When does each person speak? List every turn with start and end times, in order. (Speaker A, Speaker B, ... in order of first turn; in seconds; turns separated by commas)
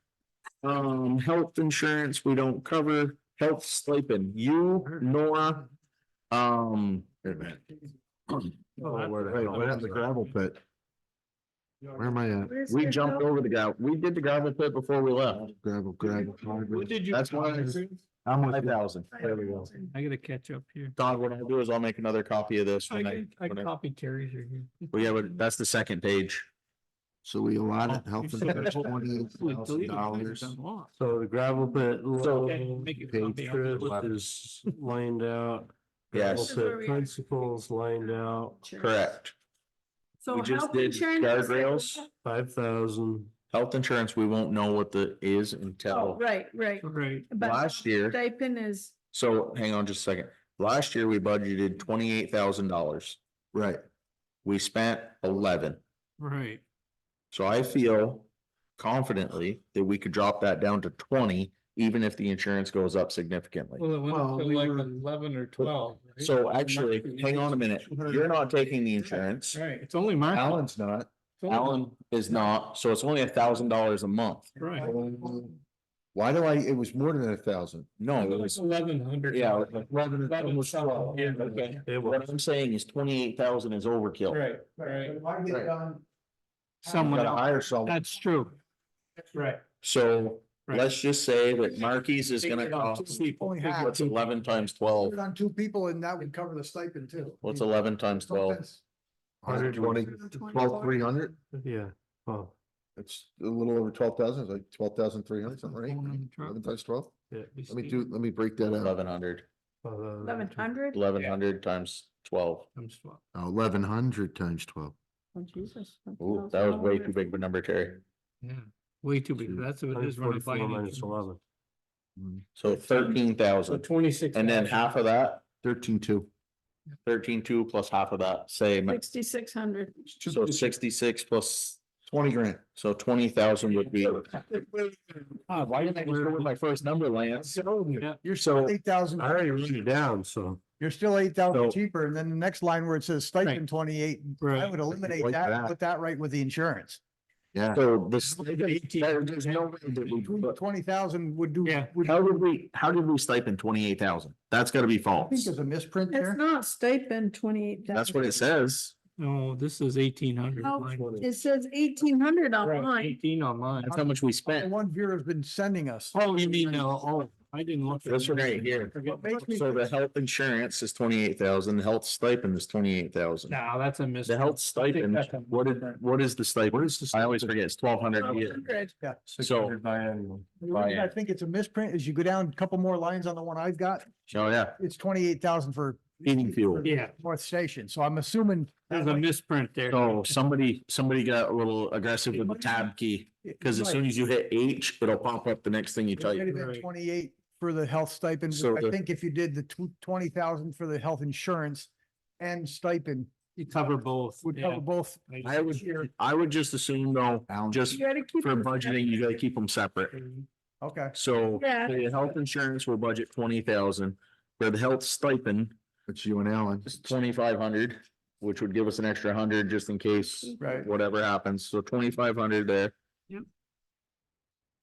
Speaker A: 0.6-5.7, Speaker B: 4.8-5.1, Speaker A: 6.3-7.1, Speaker C: 7.2-7.6, Speaker B: 8.8-10.2, Speaker C: 8.8-10.6, Speaker C: 11.9-12.6, Speaker D: 12.4-13.3, Speaker A: 12.7-15.4, Speaker C: 15.3-17.1, Speaker B: 16.0-18.0, Speaker A: 17.1-17.8, Speaker C: 18.2-19.7, Speaker A: 18.5-19.1, Speaker D: 19.1-19.9, Speaker B: 19.9-20.9, Speaker A: 21.0-23.7, Speaker B: 22.9-25.3, Speaker A: 24.9-26.5, Speaker C: 27.2-30.6, Speaker B: 27.9-30.9, Speaker E: 31.0-38.6, Speaker B: 32.2-34.0, Speaker C: 33.1-34.1, Speaker A: 36.1-36.6, Speaker D: 36.3-39.1, Speaker A: 38.8-39.3, Speaker D: 40.2-42.1, Speaker A: 40.3-42.1, Speaker E: 42.2-43.3, Speaker A: 43.5-46.2, Speaker D: 45.9-49.0, Speaker B: 46.8-47.3, Speaker A: 47.4-48.2, Speaker A: 49.1-53.2, Speaker C: 53.5-53.8, Speaker A: 54.4-55.8, Speaker B: 56.2-56.6, Speaker A: 57.3-63.8, Speaker B: 63.8-67.6, Speaker C: 64.1-64.9, Speaker A: 65.6-69.6, Speaker C: 67.9-68.3, Speaker B: 69.5-70.6, Speaker C: 70.3-71.1, Speaker B: 71.4-72.4, Speaker A: 71.5-74.5, Speaker B: 74.6-74.9, Speaker F: 74.6-75.3, Speaker C: 74.8-75.6, Speaker C: 76.2-78.1, Speaker A: 78.0-78.6, Speaker B: 78.2-81.8, Speaker A: 79.3-84.4, Speaker E: 81.9-82.2, Speaker B: 84.3-85.2, Speaker F: 84.8-86.0, Speaker F: 86.8-87.2, Speaker B: 86.8-88.6, Speaker C: 87.0-88.1, Speaker B: 89.3-89.6, Speaker A: 89.8-95.2, Speaker B: 90.7-90.9, Speaker B: 92.4-94.3, Speaker F: 93.4-94.0, Speaker F: 95.0-98.8, Speaker A: 97.4-98.6, Speaker C: 99.4-101.4, Speaker E: 99.5-99.9, Speaker B: 99.6-100.1, Speaker D: 99.9-101.0, Speaker E: 101.6-102.5, Speaker C: 103.0-107.1, Speaker B: 105.5-106.6, Speaker B: 107.3-108.0, Speaker C: 107.7-109.0, Speaker A: 108.8-109.5, Speaker E: 109.8-110.7, Speaker D: 110.2-111.0, Speaker A: 110.9-112.7, Speaker B: 112.8-113.2, Speaker C: 113.3-115.0, Speaker D: 115.3-117.2, Speaker A: 116.2-118.0, Speaker B: 118.4-121.2, Speaker E: 119.9-121.4, Speaker C: 122.2-122.4, Speaker A: 122.6-125.4, Speaker B: 122.7-125.0, Speaker C: 125.6-126.3, Speaker A: 127.0-129.0, Speaker D: 128.9-130.1, Speaker C: 130.2-130.8, Speaker A: 130.3-131.8, Speaker C: 132.0-132.6, Speaker A: 132.8-134.4, Speaker C: 134.5-135.5, Speaker A: 135.7-137.6, Speaker C: 137.5-138.1, Speaker F: 138.2-139.4, Speaker A: 138.4-138.7, Speaker E: 139.2-140.6, Speaker F: 140.8-147.0, Speaker C: 141.5-141.8, Speaker B: 144.4-144.8, Speaker C: 145.0-145.8, Speaker C: 147.5-147.8, Speaker A: 147.7-150.6, Speaker B: 148.2-149.6, Speaker F: 150.2-152.5, Speaker B: 151.6-151.9, Speaker A: 152.0-155.5, Speaker F: 155.2-156.4, Speaker D: 156.1-158.4, Speaker A: 157.9-158.9, Speaker B: 159.2-161.2, Speaker D: 160.6-163.2, Speaker E: 160.7-161.3, Speaker B: 162.6-163.9, Speaker F: 163.9-166.2, Speaker A: 163.9-164.7, Speaker B: 166.1-169.6, Speaker A: 166.4-166.8, Speaker A: 168.1-168.9, Speaker F: 169.0-169.9, Speaker A: 169.5-173.6, Speaker B: 173.5-176.0, Speaker A: 174.2-178.6, Speaker C: 176.7-177.6, Speaker D: 178.2-178.9, Speaker C: 179.3-180.5, Speaker A: 179.4-179.8, Speaker F: 180.6-184.1, Speaker A: 180.7-181.1, Speaker A: 184.3-184.8, Speaker F: 184.8-189.2, Speaker A: 186.2-186.9, Speaker B: 186.8-187.1, Speaker B: 188.9-190.4, Speaker A: 189.9-196.5, Speaker F: 192.3-192.9, Speaker F: 193.4-194.0, Speaker F: 196.2-203.3, Speaker B: 196.4-196.9, Speaker A: 198.5-198.9, Speaker B: 203.6-205.9, Speaker F: 204.4-205.2, Speaker A: 205.4-210.1, Speaker F: 205.8-206.0, Speaker C: 207.5-207.9, Speaker D: 207.9-209.1, Speaker B: 210.1-210.5, Speaker F: 210.8-211.2, Speaker A: 211.1-215.7, Speaker D: 211.5-212.0, Speaker C: 216.1-217.0, Speaker A: 216.8-222.9, Speaker D: 220.2-220.9, Speaker F: 220.6-220.9